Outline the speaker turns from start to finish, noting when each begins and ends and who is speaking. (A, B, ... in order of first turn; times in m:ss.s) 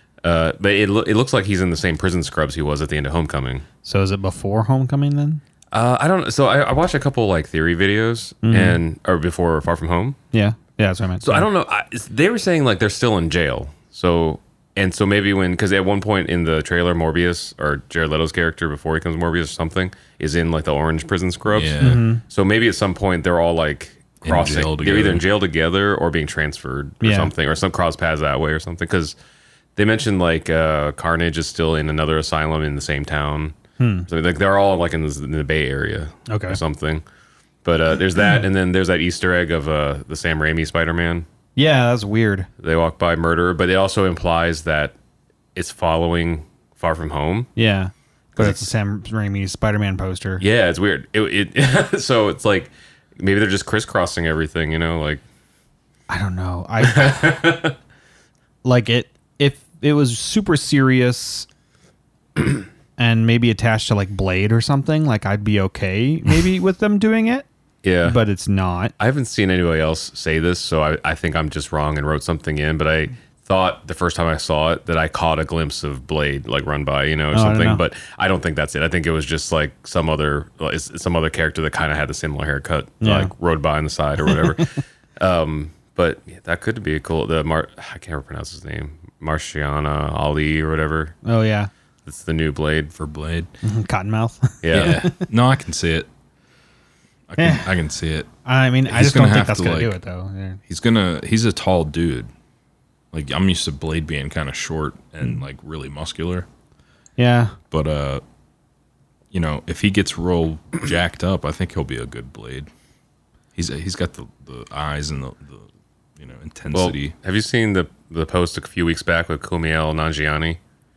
0:00.2-0:03.6 A
0:03.8-0:05.4 B
0:05.7-0:10.2 A
0:08.4-0:08.8 B
0:10.3-0:11.5 B
0:11.2-0:29.2 A
0:21.5-0:22.0 C
0:21.8-0:22.2 B
0:24.2-0:25.2 C
0:27.0-0:27.3 B
0:29.8-0:33.6 A
0:33.8-0:34.1 B
0:34.1-0:37.0 A
0:36.3-0:36.6 B
0:37.6-0:41.3 A
0:41.6-0:42.5 B
0:42.6-0:45.0 A
0:45.6-0:47.5 A
0:47.6-0:50.4 B
0:48.4-0:48.6 A
0:50.4-0:55.2 A
0:56.1-0:57.4 B
0:56.8-0:57.8 A
0:58.6-1:01.5 B
1:03.0-1:07.5 B
1:07.8-1:08.2 A
1:08.0-1:08.9 B
1:09.0-1:31.2 A
1:17.3-1:17.8 B
1:23.0-1:23.3 B
1:24.3-1:24.6 B
1:31.2-1:31.7 B
1:32.1-1:32.9 A
1:33.0-1:33.5 C
1:33.6-1:35.2 B
1:34.6-1:35.0 A
1:34.7-1:36.1 C
1:37.3-1:38.3 C
1:37.4-1:37.7 B
1:38.4-1:40.6 B
1:38.9-1:40.0 C
1:40.7-1:42.3 C
1:43.1-1:46.5 C
1:47.2-1:47.6 B
1:47.7-1:48.2 C
1:49.3-1:52.7 C
1:53.6-1:57.1 C
1:56.7-2:00.6 A